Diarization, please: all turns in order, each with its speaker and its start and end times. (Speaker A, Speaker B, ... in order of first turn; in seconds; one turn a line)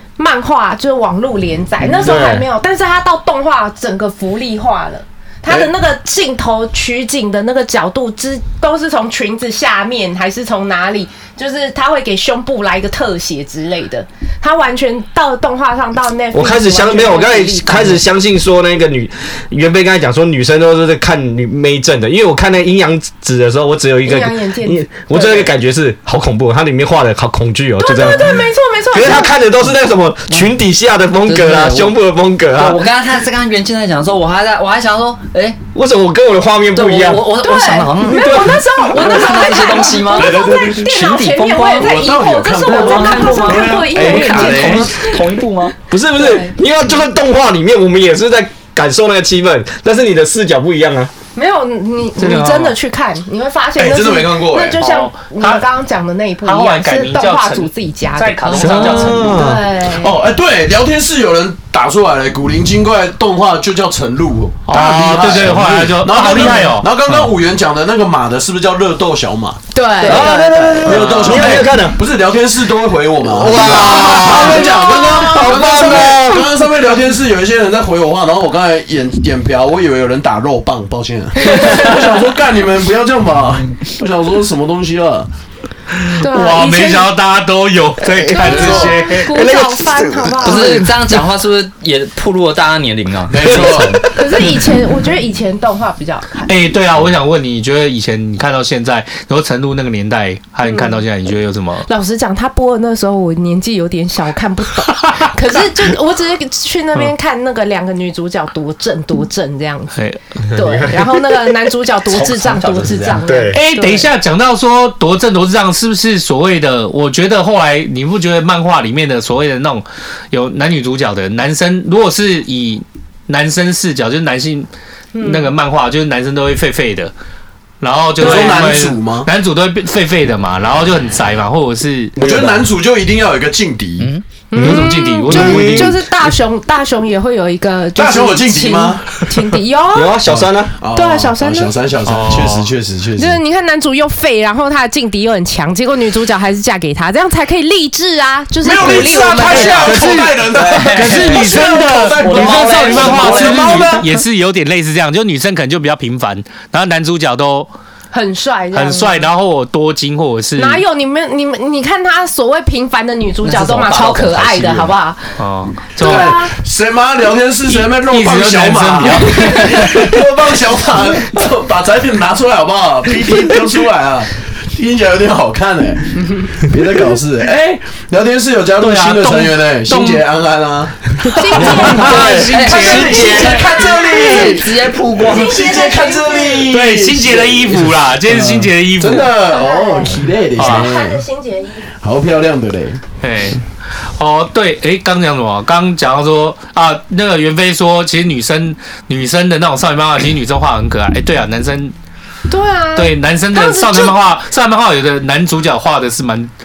Speaker A: 0.2-18.0
Speaker B: 2.0-2.5
Speaker B: 16.3-32.8
Speaker A: 24.0-25.5
Speaker A: 27.8-29.4
Speaker C: 31.2-32.0
Speaker C: 32.5-35.6
Speaker B: 35.7-37.3
Speaker C: 36.7-45.8
Speaker A: 37.3-45.2
Speaker B: 38.0-39.3
Speaker D: 39.6-40.9
Speaker D: 41.8-45.1
Speaker B: 45.9-51.1
Speaker A: 46.1-46.5
Speaker A: 51.3-60.1
Speaker E: 52.2-52.8
Speaker D: 53.8-54.8
Speaker E: 54.8-55.6
Speaker E: 56.4-59.3
Speaker C: 58.6-58.9
Speaker B: 58.6-59.6
Speaker D: 59.9-69.6
Speaker E: 64.7-66.9
Speaker A: 66.4-66.6
Speaker A: 69.7-71.6
Speaker B: 70.0-72.0
Speaker D: 70.8-85.3
Speaker B: 73.2-76.5
Speaker A: 73.5-76.1
Speaker A: 81.5-82.0
Speaker E: 86.1-89.3
Speaker A: 86.2-87.1
Speaker B: 88.2-91.2
Speaker A: 88.3-90.9
Speaker D: 88.4-88.9
Speaker C: 90.4-94.1
Speaker D: 93.3-94.0
Speaker B: 93.5-94.5
Speaker A: 94.1-96.5
Speaker E: 96.5-101.9
Speaker A: 100.6-101.0
Speaker A: 101.9-114.1
Speaker B: 110.5-111.2
Speaker C: 112.0-113.2
Speaker B: 113.2-113.6
Speaker E: 113.5-127.1
Speaker A: 125.1-125.5
Speaker E: 127.8-132.1
Speaker D: 128.2-129.3
Speaker A: 128.3-128.6
Speaker B: 132.2-132.6
Speaker D: 132.2-134.1
Speaker A: 134.5-140.2
Speaker B: 134.5-136.0
Speaker E: 134.6-135.7
Speaker D: 135.3-136.0
Speaker D: 137.9-139.2
Speaker B: 139.9-140.7
Speaker D: 140.2-143.4
Speaker A: 140.9-141.7
Speaker E: 142.1-142.7
Speaker A: 143.2-149.9
Speaker D: 148.6-154.1
Speaker E: 149.3-157.7
Speaker C: 150.5-154.1
Speaker A: 158.1-159.3
Speaker E: 158.7-160.8
Speaker A: 160.6-165.3
Speaker C: 163.4-164.9
Speaker E: 165.4-166.4
Speaker A: 165.9-166.5
Speaker D: 166.0-182.1
Speaker E: 167.7-170.1
Speaker E: 178.8-180.2
Speaker A: 181.2-184.7
Speaker E: 181.3-183.5
Speaker B: 181.6-182.6
Speaker C: 181.6-185.7
Speaker D: 182.8-191.2
Speaker A: 185.2-186.7
Speaker E: 186.7-189.3
Speaker A: 189.4-191.9
Speaker E: 190.6-190.9
Speaker D: 191.9-193.0
Speaker E: 193.2-193.7
Speaker E: 194.2-201.9
Speaker A: 202.5-204.2
Speaker E: 202.9-206.5